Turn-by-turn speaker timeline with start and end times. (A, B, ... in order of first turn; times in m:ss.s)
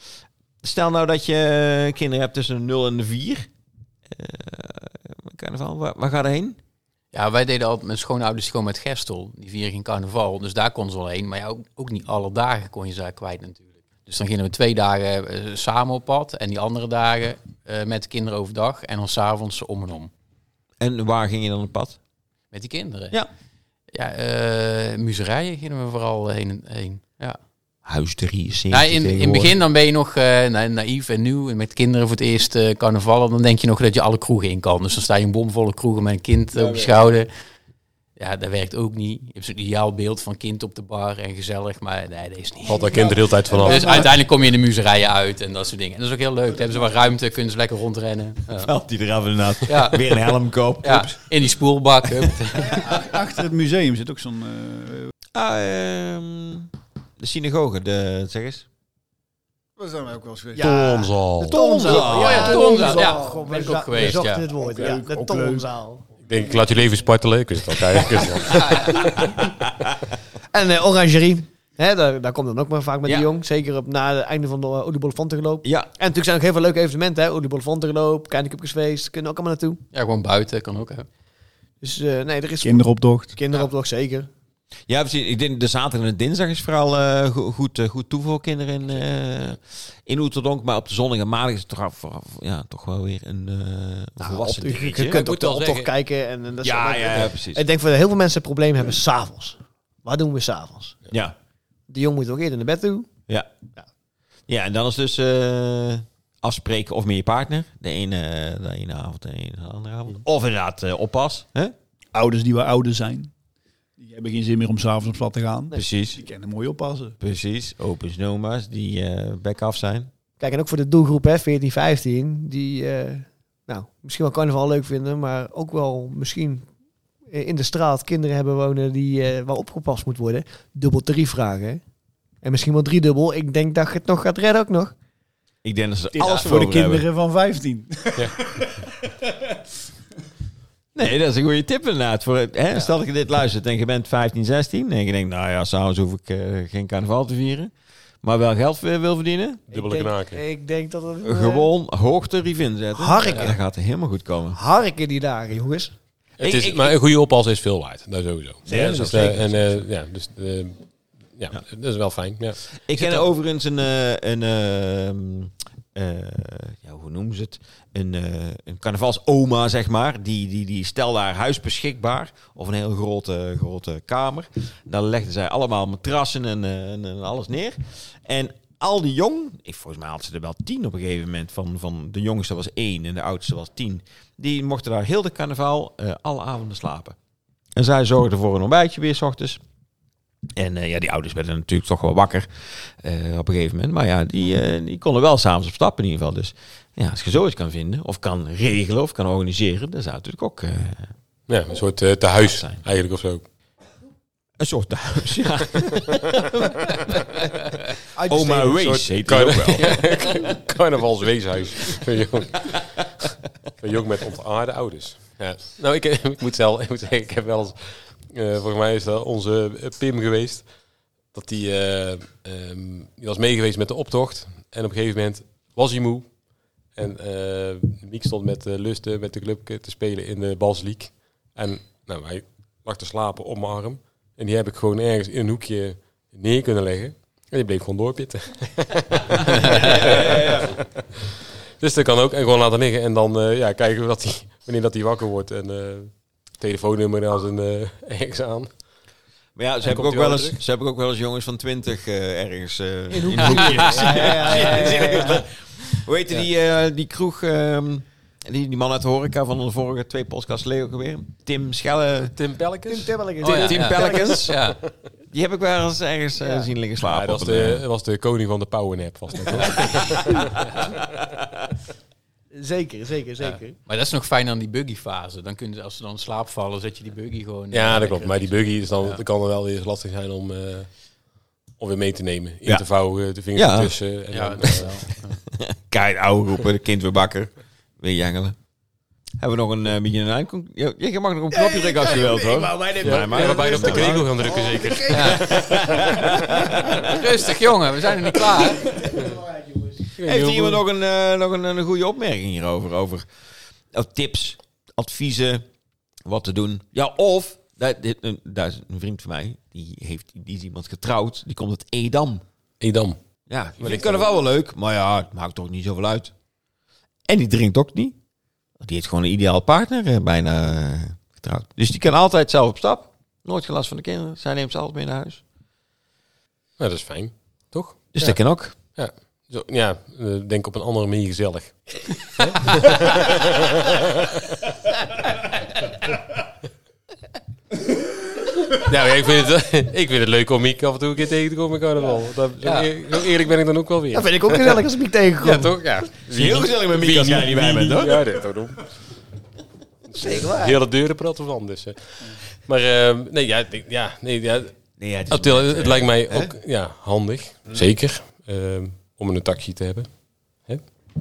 0:00.6-0:03.5 A
0:04.1-0:06.6 A
0:07.1-0:20.1 B
0:20.8-0:22.0 A
0:22.5-0:23.2 B
0:23.9-0:27.4 B
0:27.8-0:29.6 A
0:28.7-0:37.3 B
0:36.5-0:36.9 C
0:38.2-0:42.9 B
0:42.6-0:44.1 D
0:42.8-0:44.1 C
0:43.6-0:48.7 B
0:48.6-0:51.1 A
0:49.6-0:50.2 B
0:50.8-0:52.8 B
0:52.7-0:55.1 C
0:55.3-0:58.6 A
0:59.8-1:00.7 C
1:00.5-1:06.0 E
1:00.6-1:01.6 D
1:01.4-1:02.5 A
1:01.8-1:03.5 C
1:02.0-1:04.5 B
1:04.5-1:05.7 C
1:06.2-1:09.4 D
1:08.4-1:09.0 B
1:10.5-1:19.8 E
1:15.6-1:15.9 A
1:19.9-1:21.0 B
1:21.8-1:24.3 E
1:22.6-1:23.4 C
1:24.9-1:35.2 A
1:34.2-1:40.9 E
1:35.1-1:35.9 D
1:36.6-1:37.6 A
1:41.1-1:41.3 A
1:41.9-1:43.1 E
1:44.5-1:51.7 A
1:52.1-1:53.3 C
1:54.0-1:57.2 C
1:55.7-1:56.2 A
1:57.2-2:00.1 A
2:00.4-2:06.6 E
2:07.3-2:11.8 E
2:12.4-2:14.9 E
2:15.6-2:17.0 A
2:16.1-2:19.6 C
2:20.9-2:27.7 A
2:28.2-2:29.6 A
2:29.7-2:30.4 D
2:29.7-2:31.7 E
2:31.2-2:34.6 A
2:33.0-2:33.6 E
2:33.2-2:33.5 B
2:34.5-2:35.9 E
2:36.4-2:43.2 D
2:36.4-2:37.0 A
2:38.6-2:39.8 E
2:38.7-2:39.3 A
2:42.8-3:07.1 A
3:07.8-3:09.6 A
3:10.6-3:21.0 A
3:21.5-3:23.4 D
3:22.4-3:22.8 A
3:24.6-3:26.9 A
3:26.6-3:27.0 D
3:28.1-3:28.8 E
3:28.3-3:29.9 A
3:28.8-3:33.1 D
3:33.8-3:40.7 D
3:41.2-3:46.3 D
3:46.9-4:00.8 D
3:59.6-4:00.8 A
4:01.8-4:08.8 D
4:09.6-4:22.3 A
4:09.8-4:10.6 D
4:13.1-4:15.4 E
4:14.0-4:15.0 D
4:22.4-4:23.6 D
4:22.8-4:24.4 E
4:23.4-4:24.6 A
4:23.4-4:24.8 B
4:25.3-4:27.8 A
4:26.4-4:26.7 E
4:27.0-4:30.4 D
4:32.5-4:33.8 E
4:33.4-4:39.2 B
4:37.7-4:41.0 D
4:41.7-4:45.1 D
4:43.5-4:44.0 A
4:44.3-4:45.4 B
4:45.6-4:48.6 A
4:49.4-4:54.5 A
4:51.5-4:57.1 E
4:53.0-4:56.0 D
4:55.1-4:55.4 B
4:55.5-4:57.1 A
4:57.0-4:58.8 B
4:58.7-5:00.0 E
5:00.2-5:00.8 D
5:00.2-5:03.3 A
5:03.9-5:05.6 A
5:06.2-5:12.4 A
5:12.8-5:13.2 D
5:13.5-5:16.3 A
5:13.8-5:14.3 D
5:17.3-5:18.1 A
5:18.8-5:25.4 A
5:26.8-5:34.6 D
5:28.1-5:28.8 A
5:38.6-5:44.8 D
5:42.6-5:42.9 B
5:44.1-5:45.7 E
5:45.4-5:48.9 D
5:46.3-5:48.2 A
5:50.1-5:54.7 D
5:50.1-5:50.8 E
5:55.0-5:56.5 A
5:55.3-6:00.1 D